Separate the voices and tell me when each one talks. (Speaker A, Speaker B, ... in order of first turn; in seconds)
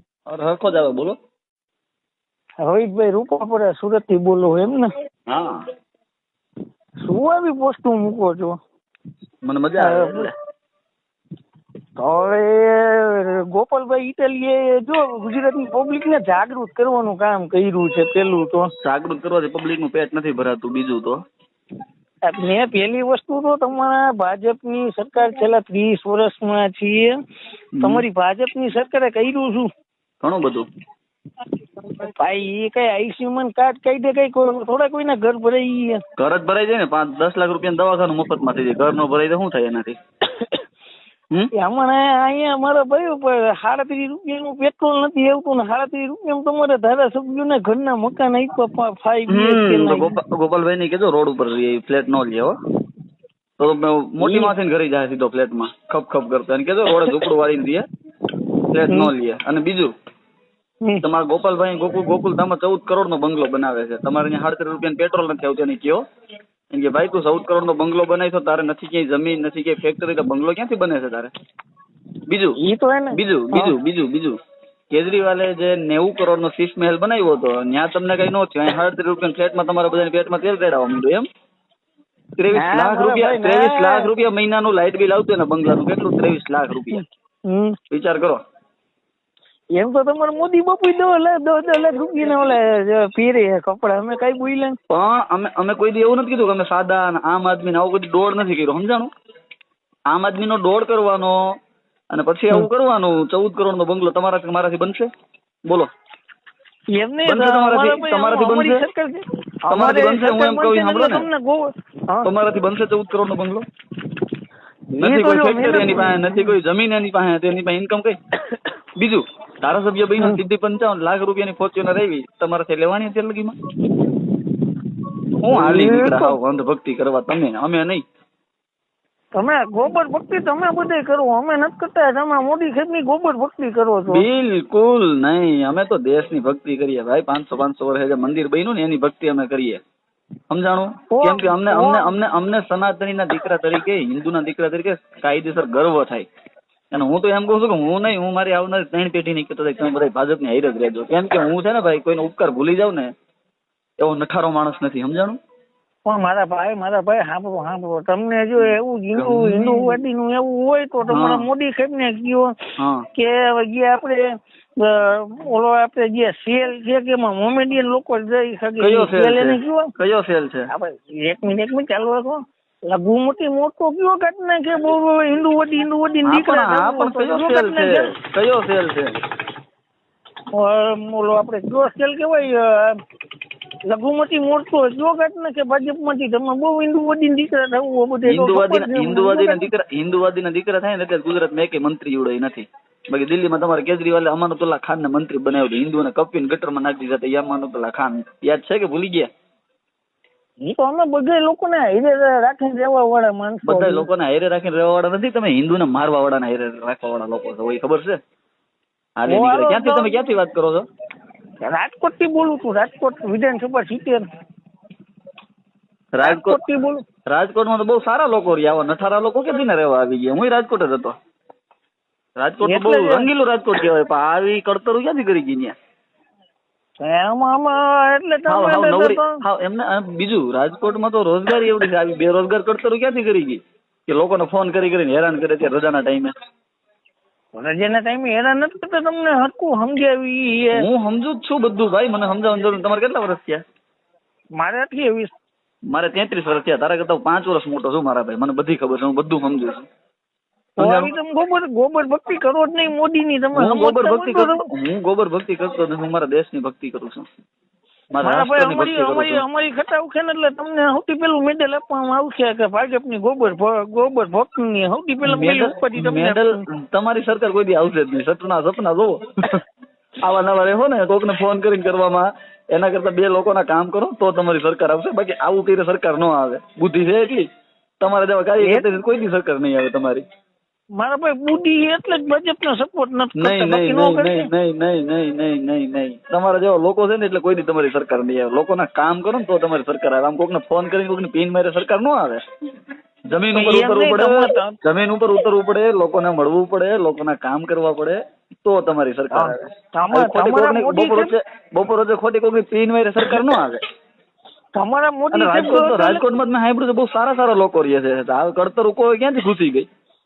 Speaker A: 0.3-1.1, 5.3-5.6, 9.4-10.3, 18.8-21.2, 27.8-28.0, 30.2-30.6, 36.2-40.0, 49.3-52.5, 53.6-57.8, 58.7-59.9, 61.0-66.0, 66.7-71.3, 72.3-72.6, 73.1-74.3, 74.9-81.2, 82.4-87.0, 87.9-88.4, 94.9-99.1, 100.1-101.4, 102.1-105.1, 107.2-108.8, 109.7-111.3, 112.2-113.6, 115.0-118.1, 119.0-123.5, 125.4-128.0, 134.1-139.8, 140.5-146.2, 146.9-153.1, 154.0-155.4, 159.2-160.0, 161.1-161.5, 162.8-163.0, 168.8-170.7, 176.2-179.1, 188.3-199.3, 203.7-208.2, 209.2-210.8, 216.1-216.6, 217.3-221.1, 222.4-225.7, 228.5-236.3, 240.8-243.6, 245.9-249.8, 250.8-251.1, 253.5-257.2, 258.1-259.4, 265.2-269.6, 270.2-277.4, 278.0-280.2, 283.4-292.4, 293.3-303.8, 305.3-309.9
Speaker B: 2.6-4.9, 7.0-8.6, 9.8-10.3, 12.0-18.7, 22.2-27.1, 27.8-29.7, 31.8-36.0, 40.3-40.6, 41.6-50.1, 54.2-54.5, 72.6-73.7, 82.5-84.1, 86.9-87.8, 89.8-94.7, 107.0-112.3, 115.0-116.5, 125.5-126.3, 129.3-134.2, 141.1-142.1, 156.1-162.5, 163.1-164.2, 164.8-169.9, 170.7-178.1, 180.5-182.9, 183.9-189.7, 200.6-204.1, 209.3-210.2, 211.6-214.2, 216.2-217.0, 222.6-223.3, 227.0-229.4, 237.6-240.8, 244.6-245.3, 250.8-254.7, 258.2-266.6, 278.6-278.9, 281.0-284.5, 293.5-294.8, 299.3-301.3, 304.8-306.2